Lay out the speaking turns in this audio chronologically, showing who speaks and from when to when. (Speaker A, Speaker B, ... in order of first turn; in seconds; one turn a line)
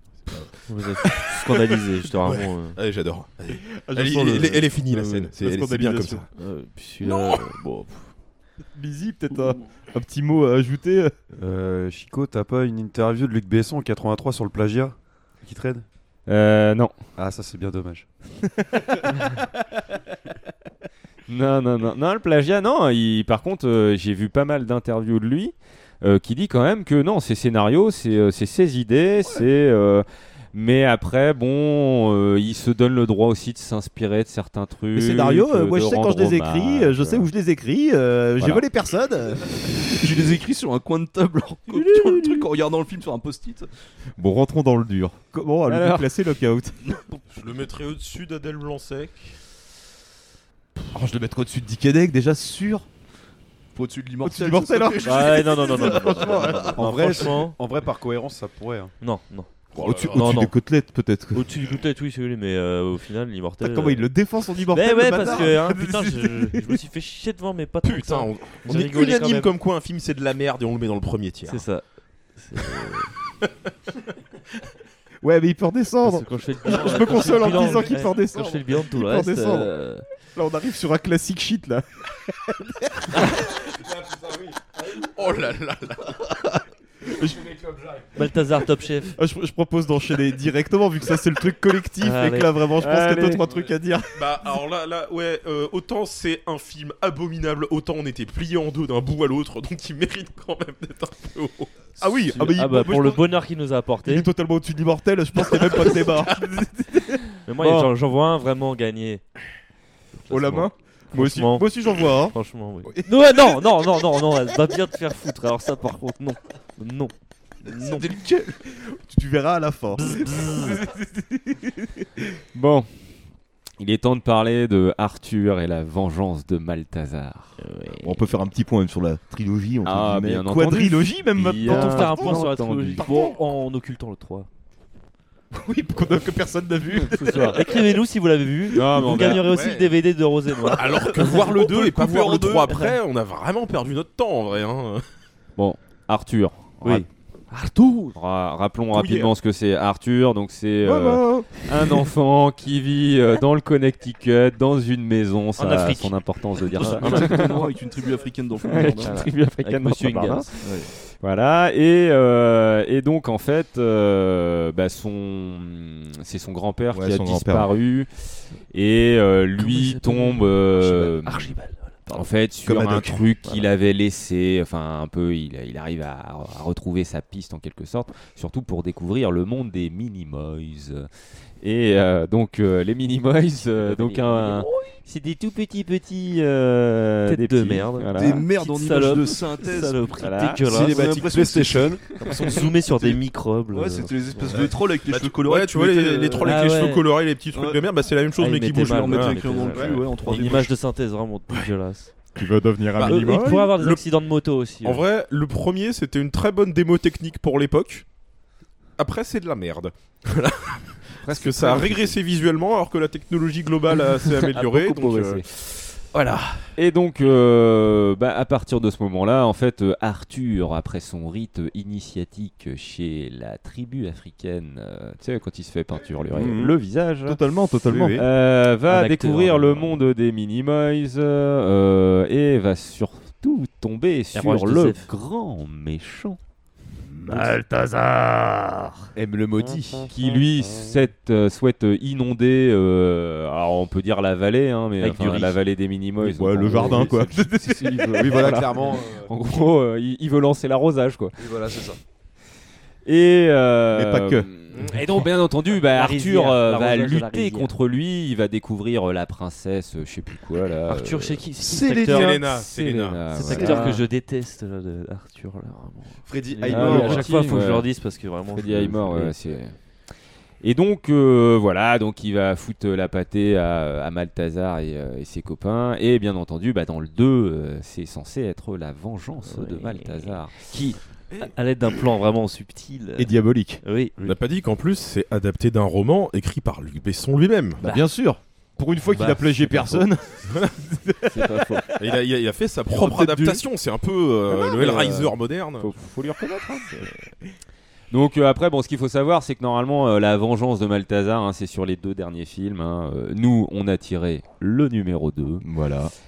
Speaker A: 0.2-6.3
Speaker B: 0.7-2.8
Speaker C: 3.7-6.2
Speaker B: 6.3-8.1
Speaker A: 7.0-7.3
Speaker C: 8.7-11.1
Speaker D: 11.3-15.8
Speaker E: 16.2-16.9
Speaker D: 17.1-18.1
Speaker E: 21.3-37.3
Speaker C: 34.9-39.8
Speaker E: 38.4-38.6
Speaker F: 39.9-43.7
Speaker C: 44.2-46.8
Speaker E: 45.7-46.1
Speaker A: 47.3-49.4
Speaker C: 50.9-52.9
Speaker F: 53.7-57.3
Speaker C: 54.2-56.8
Speaker B: 55.0-57.6
Speaker D: 56.8-58.9
Speaker B: 59.0-59.5
Speaker A: 59.7-60.4
Speaker C: 59.8-61.4
Speaker B: 60.1-60.5
Speaker B: 61.3-69.5
Speaker C: 63.6-66.8
Speaker A: 67.8-71.7
Speaker B: 71.5-71.8
Speaker B: 72.3-73.1
Speaker C: 75.2-79.7
Speaker B: 76.0-80.0
Speaker C: 80.3-83.3
Speaker A: 85.0-86.2
Speaker C: 87.1-87.5
Speaker B: 88.1-89.2
Speaker C: 89.1-94.2
Speaker B: 92.0-92.5
Speaker E: 92.8-93.5
Speaker A: 94.1-101.8
Speaker C: 102.0-103.3
Speaker B: 102.2-104.3
Speaker C: 104.0-107.9
Speaker B: 107.4-109.2
Speaker B: 110.2-117.1
Speaker C: 110.3-112.3
Speaker C: 112.8-113.4
Speaker B: 117.6-118.1
Speaker C: 117.8-120.8
Speaker B: 120.0-120.8
Speaker E: 122.5-122.9
Speaker E: 123.8-127.6
Speaker B: 127.6-128.2
Speaker C: 128.0-133.3
Speaker E: 129.8-133.1
Speaker B: 131.6-134.5
Speaker C: 135.5-137.8
Speaker E: 137.0-137.6
Speaker B: 137.3-141.4
Speaker E: 138.7-139.5
Speaker A: 139.4-140.0
Speaker A: 140.7-145.1
Speaker F: 140.8-142.7
Speaker B: 142.7-142.9
Speaker E: 145.6-147.1
Speaker B: 146.8-147.1
Speaker E: 148.1-157.7
Speaker C: 148.9-149.3
Speaker C: 150.8-151.9
Speaker B: 155.6-156.2
Speaker F: 156.7-159.2
Speaker B: 156.9-157.2
Speaker E: 158.6-160.5
Speaker B: 159.0-160.6
Speaker F: 160.6-160.9
Speaker E: 161.2-168.1
Speaker C: 166.9-167.7
Speaker E: 168.7-171.5
Speaker B: 169.6-172.3
Speaker E: 172.1-181.1
Speaker C: 172.6-173.2
Speaker E: 181.6-188.5
Speaker B: 183.8-184.9
Speaker B: 187.2-191.4
Speaker F: 188.1-196.9
Speaker E: 190.2-190.7
Speaker D: 190.7-192.1
Speaker B: 192.3-194.6
Speaker A: 195.1-199.8
Speaker B: 196.4-197.1
Speaker F: 197.5-200.8
Speaker B: 198.4-202.1
Speaker C: 202.3-203.8
Speaker A: 202.9-204.1
Speaker B: 203.0-205.0
Speaker A: 204.8-208.1
Speaker A: 209.0-216.6
Speaker E: 211.2-212.2
Speaker E: 214.1-215.5
Speaker E: 216.8-236.4
Speaker C: 226.3-228.2
Speaker B: 228.9-229.9
Speaker B: 234.3-235.1
Speaker B: 237.3-238.9
Speaker E: 237.3-237.6
Speaker D: 239.1-240.1
Speaker E: 240.1-251.4
Speaker B: 245.0-245.5
Speaker C: 246.2-247.5
Speaker D: 248.1-249.3
Speaker D: 251.4-252.0
Speaker E: 253.0-261.4
Speaker C: 253.9-254.5
Speaker A: 254.7-255.2
Speaker B: 255.7-257.7
Speaker B: 260.9-262.3
Speaker D: 261.8-262.2
Speaker A: 262.1-263.4
Speaker E: 262.1-264.0
Speaker B: 263.3-269.3
Speaker D: 266.3-267.0
Speaker E: 266.6-267.9
Speaker E: 268.5-269.7
Speaker E: 270.6-280.6
Speaker B: 279.4-284.2
Speaker C: 283.2-283.8
Speaker A: 284.2-287.8
Speaker C: 287.8-292.1
Speaker B: 287.8-288.1
Speaker B: 289.1-290.0
Speaker E: 289.6-290.0
Speaker E: 291.3-291.9
Speaker A: 292.0-295.9
Speaker E: 294.5-297.1
Speaker E: 298.1-305.6
Speaker C: 305.6-306.1